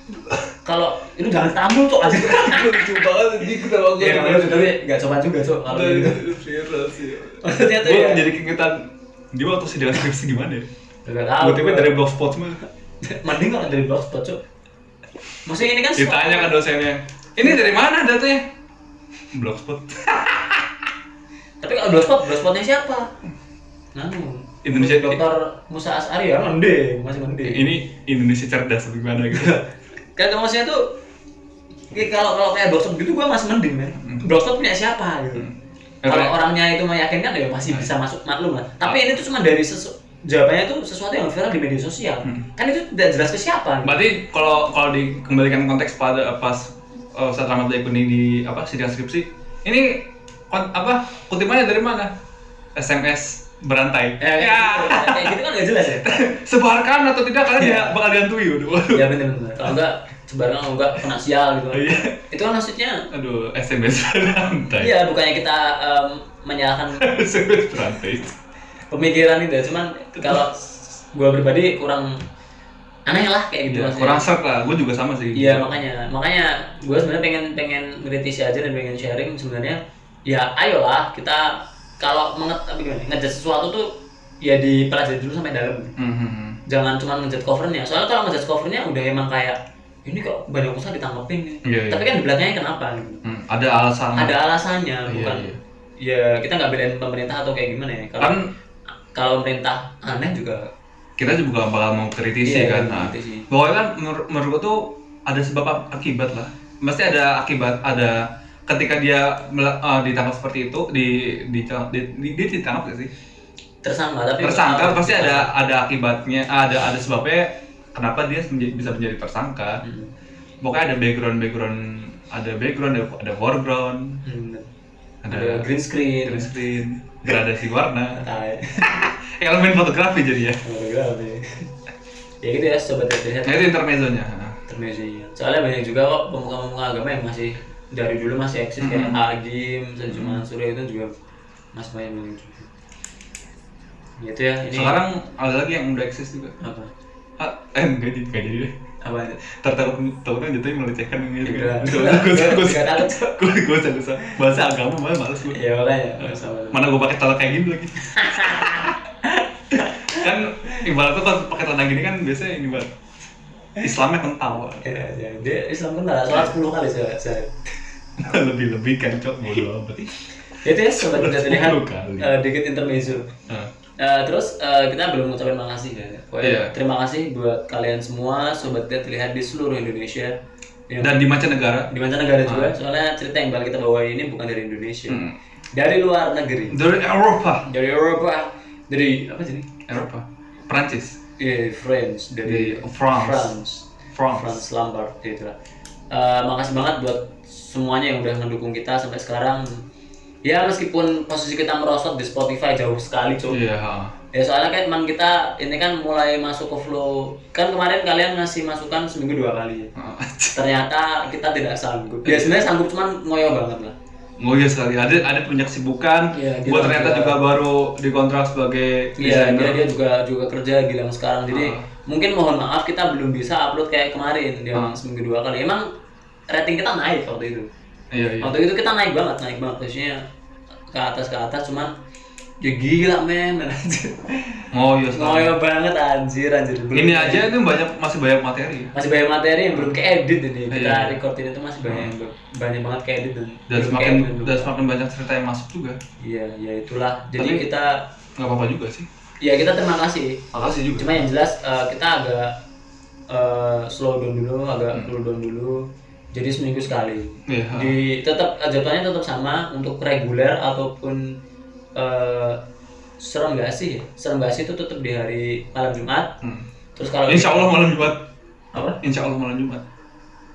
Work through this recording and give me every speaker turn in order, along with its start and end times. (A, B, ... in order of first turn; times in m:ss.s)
0:00.6-0:02.9 A
0:02.0-0:04.8 B
0:04.0-0:06.2 A
0:05.7-0:10.7 B
0:07.4-0:08.3 A
0:11.0-0:12.0 A
0:11.4-0:12.6 B
0:13.0-0:14.4 A
0:15.5-0:16.6 A
0:16.0-0:18.5 B
0:19.3-0:20.7 B
0:21.6-0:23.1 A
0:24.0-0:27.7 A
0:24.6-0:25.2 B
0:27.4-0:29.6 B
0:29.3-0:29.6 A
0:30.2-0:30.9 A
0:31.9-0:35.5 A
0:35.4-0:36.3 B
0:36.1-0:44.1 A
0:43.8-0:52.1 B
0:52.8-0:55.4 B
0:54.2-0:56.1 A
0:56.0-0:59.0 B
0:57.6-0:58.0 A
0:58.9-1:03.1 A
1:01.7-1:02.2 B
1:03.1-1:04.9 B
1:04.8-1:07.0 A
1:07.0-1:08.4 B
1:08.9-1:12.2 A
1:13.1-1:14.3 A
1:13.7-1:15.8 B
1:15.4-1:25.9 A
1:26.0-1:26.6 B
1:26.7-1:33.2 A
1:31.6-1:32.1 B
1:33.2-1:34.4 B
1:34.2-1:38.4 A
1:35.1-1:35.6 B
1:39.2-1:40.7 A
1:41.2-1:53.1 B
1:42.4-1:43.5 A
1:53.8-1:55.5 A
1:54.4-1:59.8 B
1:59.8-2:00.1 A
2:00.6-2:04.2 B
2:04.2-2:04.7 A
2:05.2-2:05.7 B
2:05.3-2:06.5 A
2:06.2-2:08.2 B
2:08.1-2:08.9 A
2:08.8-2:10.6 B
2:10.6-2:11.6 A
2:12.4-2:13.7 A
2:13.4-2:14.6 B
2:14.7-2:21.1 A
2:18.8-2:19.2 B
2:20.1-2:20.4 B
2:21.7-2:22.7 A
2:24.2-2:25.0 A
2:24.7-2:26.6 B
2:26.6-2:26.9 A
2:27.4-2:28.7 B
2:29.0-2:29.4 A
2:29.5-2:35.6 B
2:31.4-2:33.4 A
2:35.5-2:36.8 A
2:36.2-2:38.9 B
2:38.1-2:40.8 A
2:39.8-2:42.9 B
2:43.8-2:45.1 B
2:44.8-2:47.5 A
2:48.2-2:50.1 B
2:50.6-2:53.3 A
2:50.9-2:52.3 B
2:54.0-3:00.4 A
2:56.4-2:56.7 B
3:00.9-3:01.2 A
3:01.0-3:01.9 B
3:01.9-3:05.2 A
3:02.4-3:02.7 B
3:05.1-3:05.4 B
3:05.7-3:06.8 A
3:06.7-3:07.7 B
3:07.7-3:09.7 A
3:09.9-3:11.2 B
3:11.4-3:15.6 A
3:12.4-3:13.5 B
3:14.1-3:14.5 B
3:16.1-3:19.8 A
3:20.4-3:23.6 A
3:23.5-3:24.2 B
3:24.3-3:29.9 A
3:30.0-3:30.6 B
3:30.6-3:34.0 A
3:32.2-3:32.6 B
3:34.4-3:39.8 B
3:36.3-3:37.4 A
3:39.2-3:45.9 A
3:41.5-3:41.8 B
3:46.5-3:47.7 A
3:48.1-3:48.6 B
3:48.4-3:50.2 A
3:50.9-3:51.9 A
3:52.6-3:57.5 A
3:54.7-3:55.6 B
3:56.9-3:58.9 B
3:59.0-4:04.7 A
4:00.7-4:01.2 B
4:01.9-4:02.1 B
4:03.7-4:06.0 B
4:06.2-4:08.1 A
4:07.4-4:07.6 B
4:08.4-4:09.1 B
4:09.4-4:12.6 A
4:10.5-4:11.3 B
4:13.3-4:21.3 A
4:17.5-4:18.0 B
4:22.0-4:22.6 A
4:23.2-4:26.4 A
4:26.4-4:26.7 B
4:27.0-4:28.0 A
4:27.3-4:28.3 B
4:29.0-4:29.8 B